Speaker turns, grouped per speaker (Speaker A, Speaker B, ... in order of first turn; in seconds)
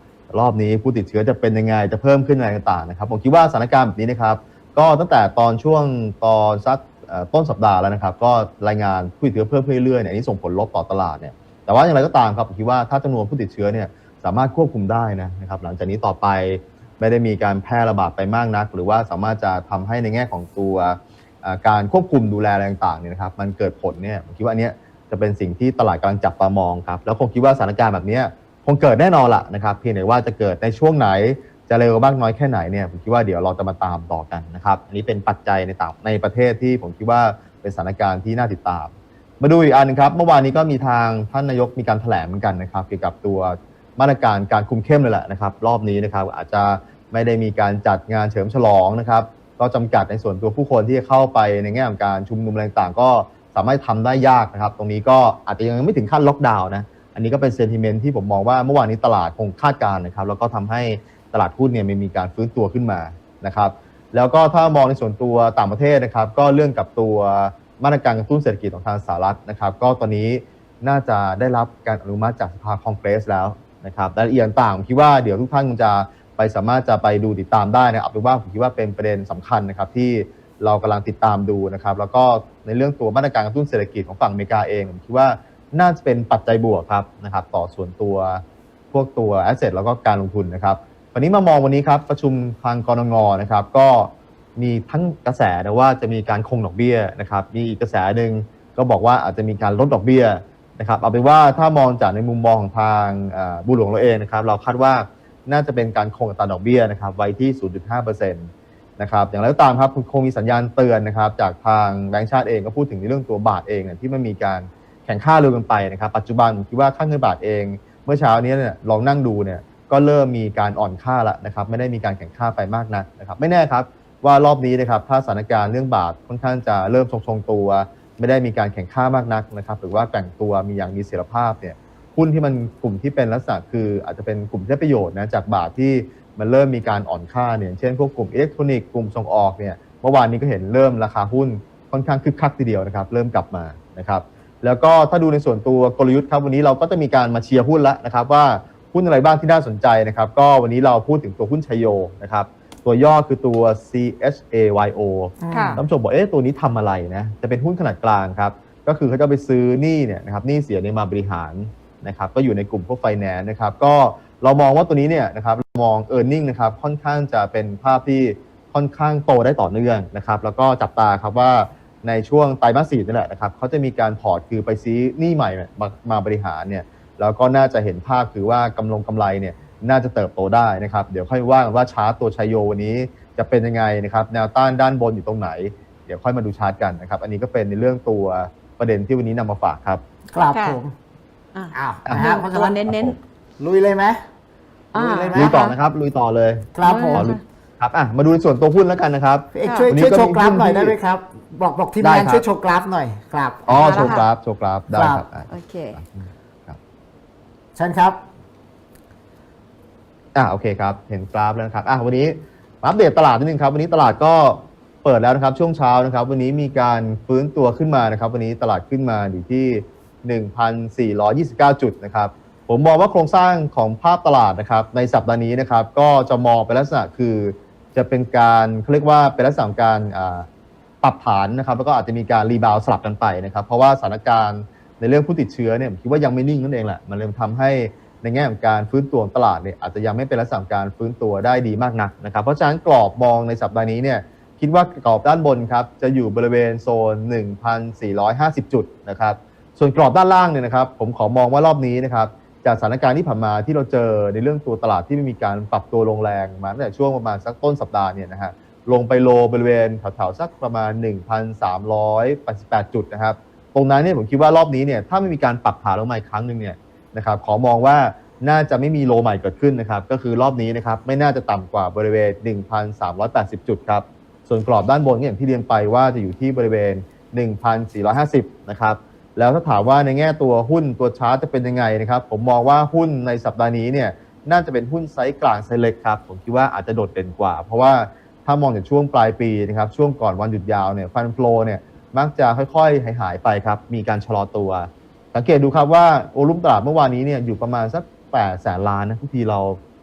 Speaker A: 0.3-190.0, 192.9-193.1, 195.3-201.0, 202.0-202.4, 203.7-206.8, 210.3-230.5, 231.0-299.8
Speaker B: 155.4-155.8, 190.3-190.9, 191.7-194.2, 194.9-195.7, 196.7-197.3, 199.5-204.2, 204.9-205.2, 207.7-208.2
Speaker C: 155.5-155.8, 190.5-190.8, 191.5-193.2, 194.9-195.7, 196.8-197.4, 199.6-199.9, 203.8-204.3, 205.5-205.9